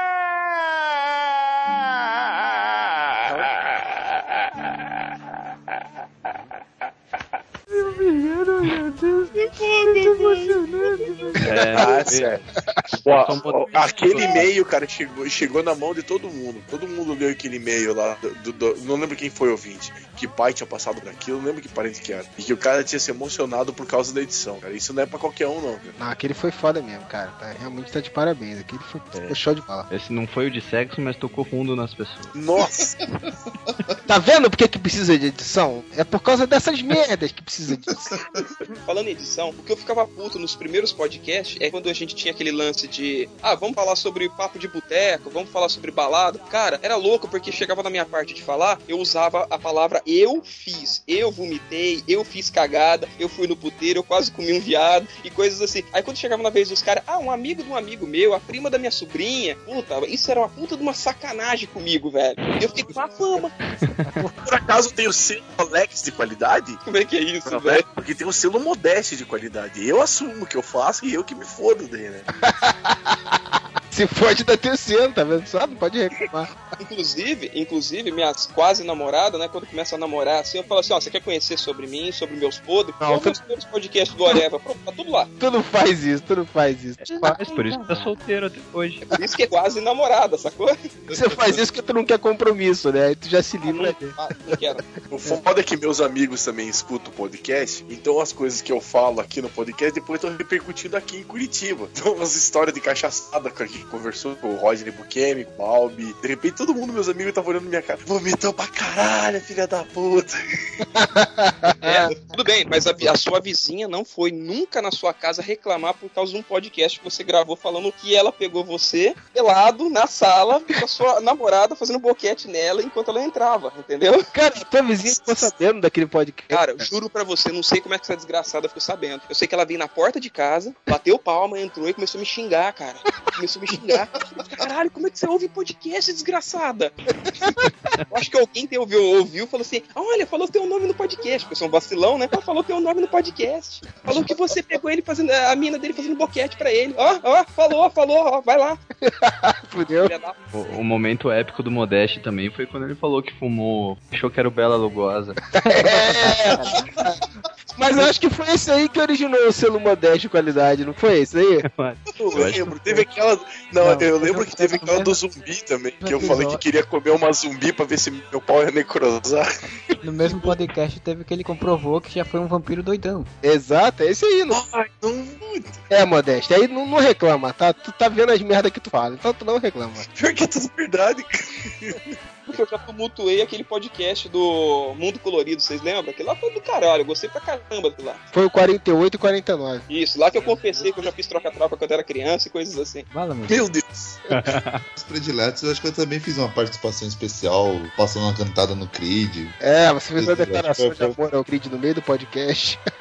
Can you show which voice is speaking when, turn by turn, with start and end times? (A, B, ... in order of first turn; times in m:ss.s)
0:07.7-0:11.4 A
0:09.9-0:10.4 B
0:11.4-0:12.4 C
0:11.7-0:12.4 B
0:13.0-0:14.5 C
0:13.0-0:25.9 B
0:26.0-0:29.9 D
0:29.9-0:32.3 C
0:32.3-0:33.0 B
0:34.1-0:38.0 D
0:38.8-1:03.5 E
1:03.6-1:04.2 C
1:04.4-1:06.8 B
1:06.8-1:07.8 E
1:07.5-1:12.3 B
1:13.9-1:16.5 D
1:16.8-1:25.3 E
1:23.0-1:23.4 D
1:25.4-1:27.4 D
1:27.0-1:29.0 C
1:29.1-1:30.7 E
1:31.1-1:31.6 F
1:31.1-1:34.1 D
1:33.6-1:34.8 E
1:35.1-1:50.3 B
1:51.0-1:52.0 D
1:51.8-2:04.3 E
2:04.3-2:06.9 D
2:05.0-2:05.5 B
2:06.5-2:16.9 E
2:18.1-2:28.8 E
2:29.1-2:30.1 D
2:30.0-2:30.4 E
2:30.5-2:35.4 C
2:35.6-2:37.1 D
2:35.9-2:36.9 A
2:37.8-2:41.6 D
2:41.7-2:43.0 C
2:42.3-2:49.6 B
2:43.9-2:45.2 A
2:46.0-2:46.6 A
2:50.0-2:53.3 A
2:53.4-2:54.6 D
2:54.5-2:55.8 B
2:55.9-3:00.0 D
3:00.2-3:02.0 B
3:02.5-3:08.2 E
3:08.3-3:09.8 D
3:09.9-3:13.1 E
3:13.1-3:13.6 A
3:13.5-3:14.2 B
3:14.3-3:14.8 C
3:15.0-3:19.6 F
3:19.6-3:22.8 D
3:20.2-3:21.1 F